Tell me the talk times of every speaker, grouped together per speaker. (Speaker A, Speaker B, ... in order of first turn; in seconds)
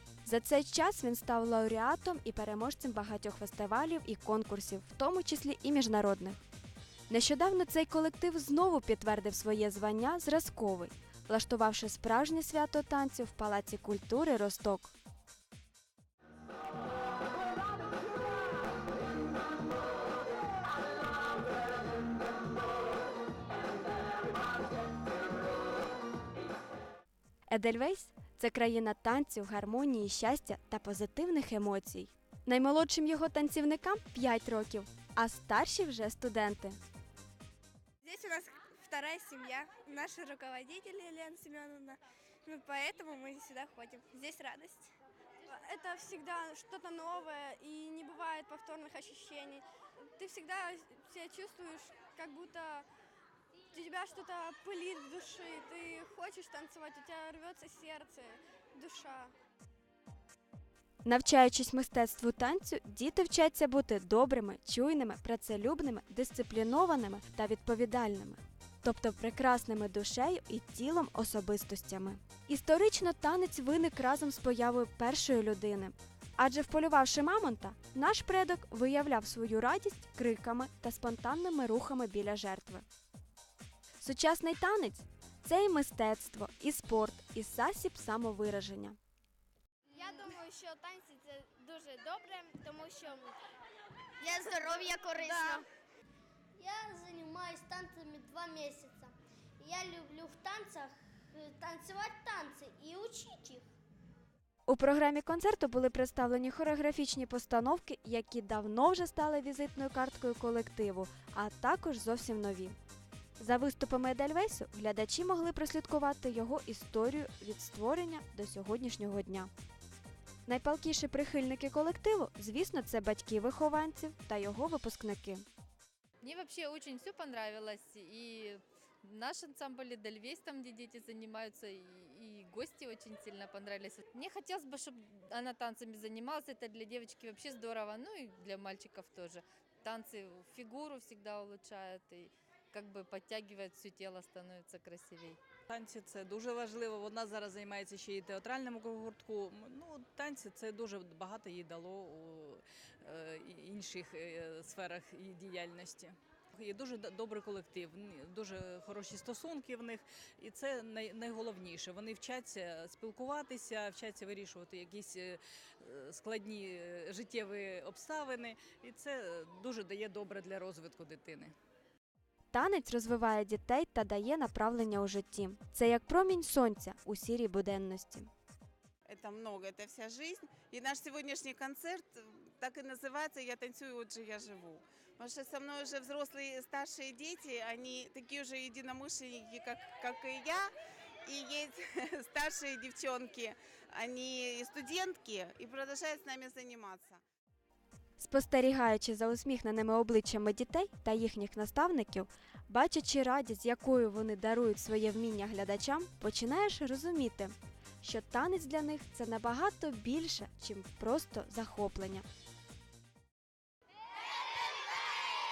Speaker A: 0.2-6.4, 7.1-14.9, 27.5-36.8, 61.0-82.8, 84.0-89.0, 104.7-112.8, 113.4-119.5, 120.5-125.4, 172.5-178.3, 198.2-212.2
Speaker B: 38.0-44.9, 45.5-49.6, 50.2-52.9, 53.7-59.3
Speaker C: 89.9-93.4, 94.2-95.7
Speaker D: 96.6-103.6
Speaker E: 126.2-145.4
Speaker F: 145.7-171.5
Speaker G: 179.1-190.7, 191.2-197.2